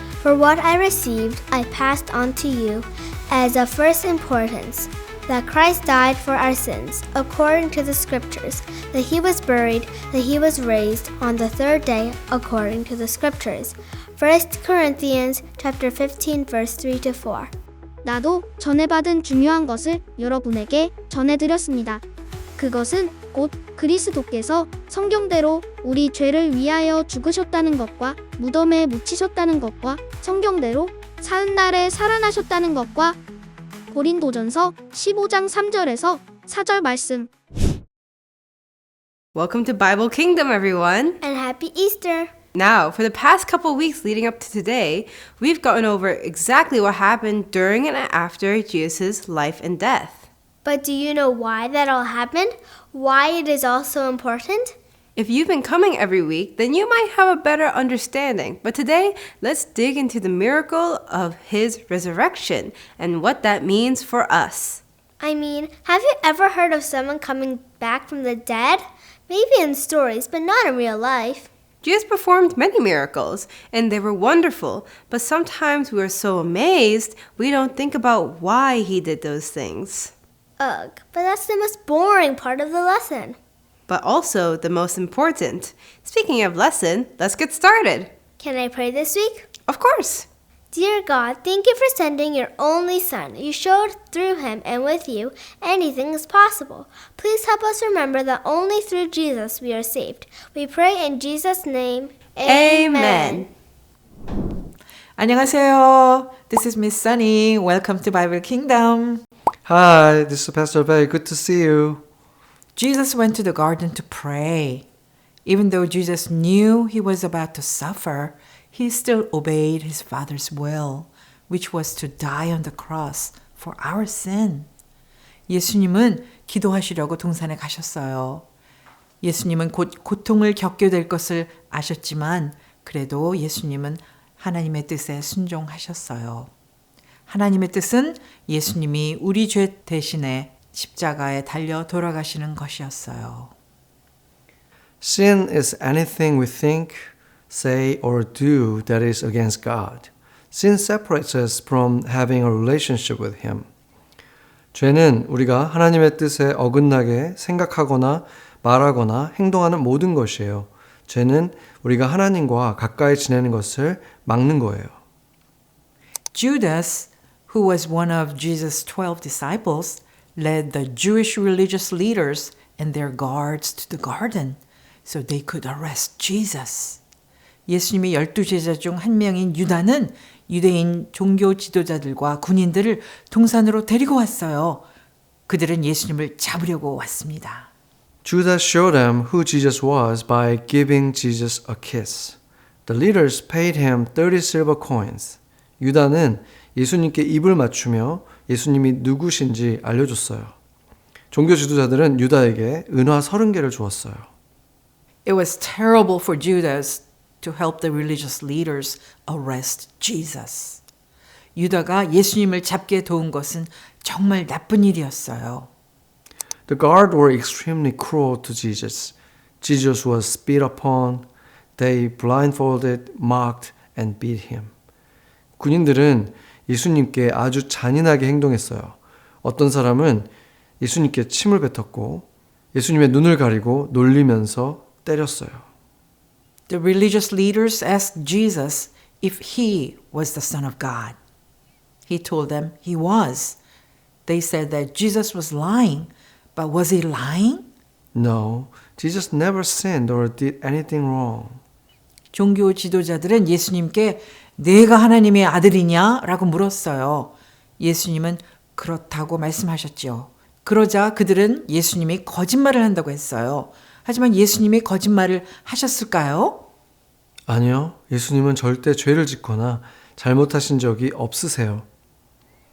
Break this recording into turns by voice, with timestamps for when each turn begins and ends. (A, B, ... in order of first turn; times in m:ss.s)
0:00.2-0:17.5 A
0:18.0-0:22.0 B
0:22.6-0:33.2 B
0:33.9-0:37.3 B
0:39.4-0:41.2 C
0:41.2-0:42.3 A
0:42.6-0:50.3 C
0:50.6-0:54.8 A
0:55.2-1:04.8 C
1:05.2-1:11.5 A
1:11.8-1:20.1 C
1:20.6-1:23.4 A
1:23.9-1:28.1 C
1:28.4-1:29.5 A
1:29.7-1:30.3 C
1:30.7-1:43.4 A
1:42.5-1:43.5 C
1:45.2-1:49.2 D
1:49.6-1:52.0 E
1:52.8-1:54.9 D
1:55.4-2:04.7 D
2:05.5-2:08.5 D
2:09.2-2:16.5 D
2:17.3-2:23.5 D
2:25.0-2:33.7 E
2:34.7-2:44.9 E
2:46.3-2:57.0 D
2:57.7-3:04.8 D
3:05.5-3:07.7 D
3:08.2-3:20.5 E
3:21.3-3:24.3 E
3:25.2-3:30.8 D
3:31.6-3:35.7 D
3:36.7-3:44.7 E
3:45.6-3:55.6 E
3:56.7-4:01.2 D
4:02.1-4:03.6 D
4:04.3-4:07.7 D
4:08.1-4:11.6 E
4:12.3-4:26.7 D
4:27.5-4:31.9 E